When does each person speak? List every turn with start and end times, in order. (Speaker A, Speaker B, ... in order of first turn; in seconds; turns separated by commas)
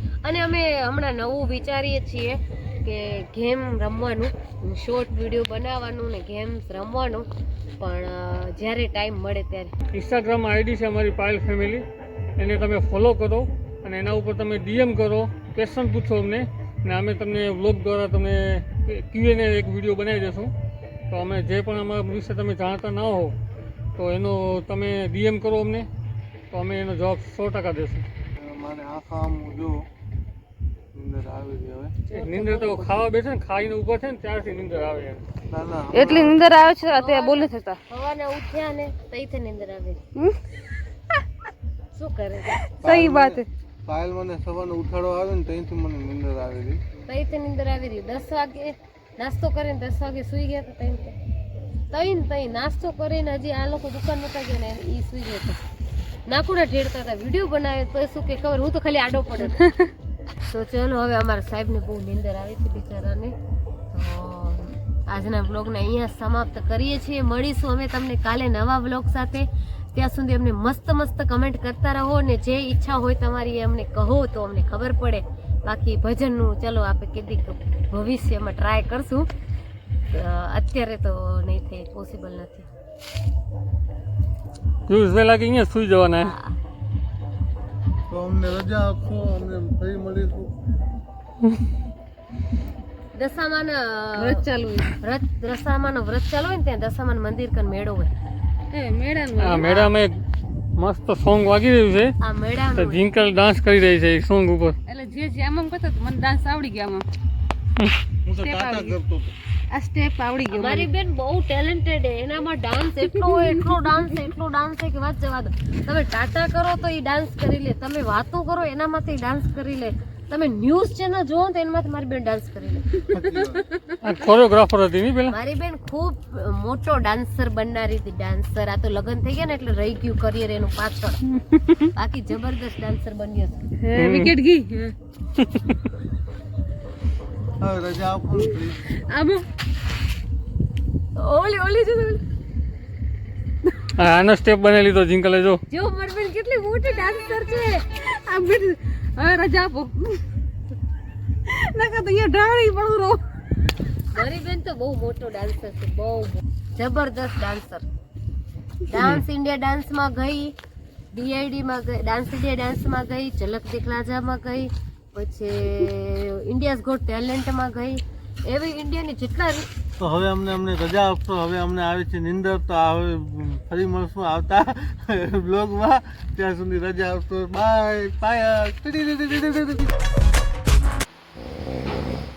Speaker A: 0.2-7.3, Speaker A: 7.8-9.7, Speaker B: 9.9-11.8, Speaker B: 12.4-20.5, Speaker B: 21.1-23.4, Speaker B: 23.9-25.9, Speaker B: 26.5-28.1, Speaker C: 28.4-29.9, Speaker C: 30.9-32.0, Speaker D: 32.1-33.0, Speaker B: 32.1-35.2, Speaker C: 35.5-36.4, Speaker D: 35.9-37.8, Speaker A: 36.9-40.0, Speaker A: 41.9-42.7, Speaker D: 42.6-43.5, Speaker C: 42.8-46.8, Speaker A: 47.1-51.1, Speaker A: 51.9-55.6, Speaker A: 56.3-59.7, Speaker A: 60.4-63.3, Speaker A: 63.9-79.3, Speaker A: 80.1-82.7, Speaker B: 84.9-86.3, Speaker C: 88.1-90.5, Speaker A: 93.1-98.1, Speaker D: 94.2-94.9, Speaker D: 98.7-99.7, Speaker B: 99.3-100.2, Speaker A: 99.5-99.9, Speaker B: 100.8-102.1, Speaker A: 102.2-103.0, Speaker B: 102.7-104.8, Speaker D: 104.9-107.0, Speaker C: 108.2-109.3, Speaker D: 108.3-109.0, Speaker D: 109.7-110.9, Speaker A: 110.5-123.1, Speaker D: 113.2-113.7, Speaker C: 123.1-123.6, Speaker B: 124.0-125.3, Speaker A: 125.3-131.2, Speaker A: 131.8-133.6, Speaker D: 133.8-134.9, Speaker B: 133.9-134.3, Speaker B: 135.4-135.8, Speaker C: 137.6-138.9, Speaker A: 141.2-142.2, Speaker B: 143.9-145.6, Speaker A: 145.7-148.1, Speaker D: 148.1-150.2, Speaker D: 151.4-153.2, Speaker A: 154.1-157.8, Speaker A: 158.9-160.5, Speaker A: 161.1-169.7, Speaker C: 170.0-179.9